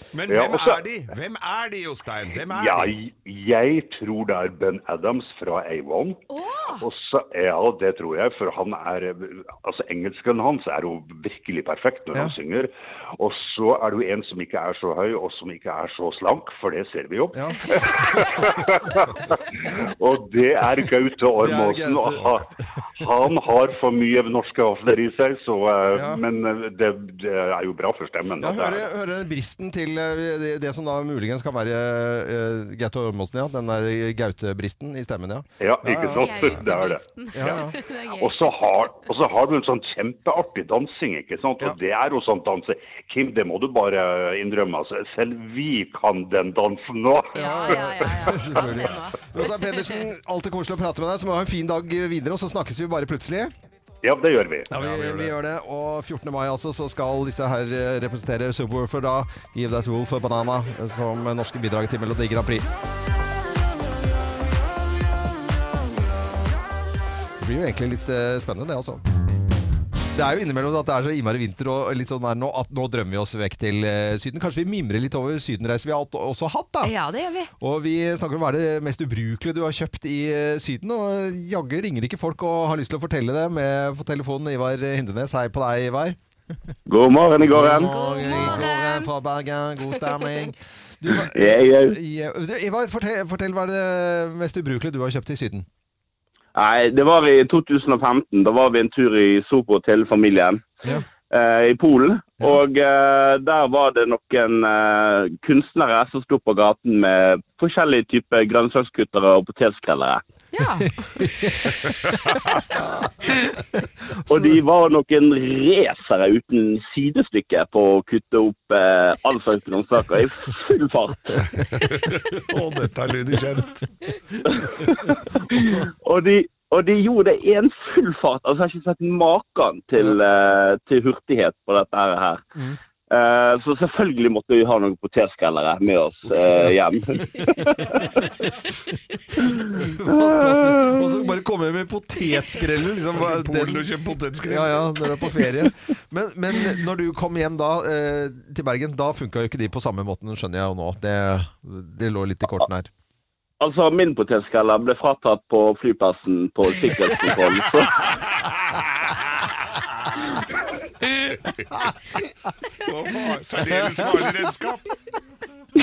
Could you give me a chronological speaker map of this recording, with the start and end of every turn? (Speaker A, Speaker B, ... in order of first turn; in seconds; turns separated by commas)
Speaker A: 0.1-3.0, Speaker B: 0.3-0.8, Speaker B: 2.5-6.2, Speaker C: 6.3-6.8, Speaker B: 6.8-28.9, Speaker D: 17.3-17.6, Speaker D: 18.2-18.5, Speaker D: 21.4-22.3, Speaker D: 25.9-26.2, Speaker D: 28.4-36.6, Speaker B: 35.6-37.6, Speaker C: 36.0-38.5, Speaker D: 37.4-37.7, Speaker B: 38.2-48.7, Speaker D: 47.3-53.5, Speaker C: 47.4-50.0, Speaker B: 54.0-54.7, Speaker D: 54.7-62.7, Speaker A: 54.7-55.3, Speaker D: 67.4-69.0, Speaker D: 70.1-76.9, Speaker C: 76.8-77.5, Speaker D: 77.6-86.2, Speaker E: 86.9-87.9, Speaker D: 87.4-95.7, Speaker C: 87.9-89.1, Speaker E: 91.3-92.0, Speaker E: 96.5-100.8, Speaker E: 101.3-110.2, Speaker C: 110.5-111.0, Speaker E: 114.3-121.5, Speaker A: 121.7-123.9, Speaker E: 124.5-132.4, Speaker E: 133.1-138.3, Speaker D: 139.6-143.9, Speaker A: 143.2-145.3, Speaker D: 144.4-152.9, Speaker E: 153.6-158.0, Speaker A: 158.4-159.3, Speaker A: 162.8-164.9, Speaker D: 163.7-164.2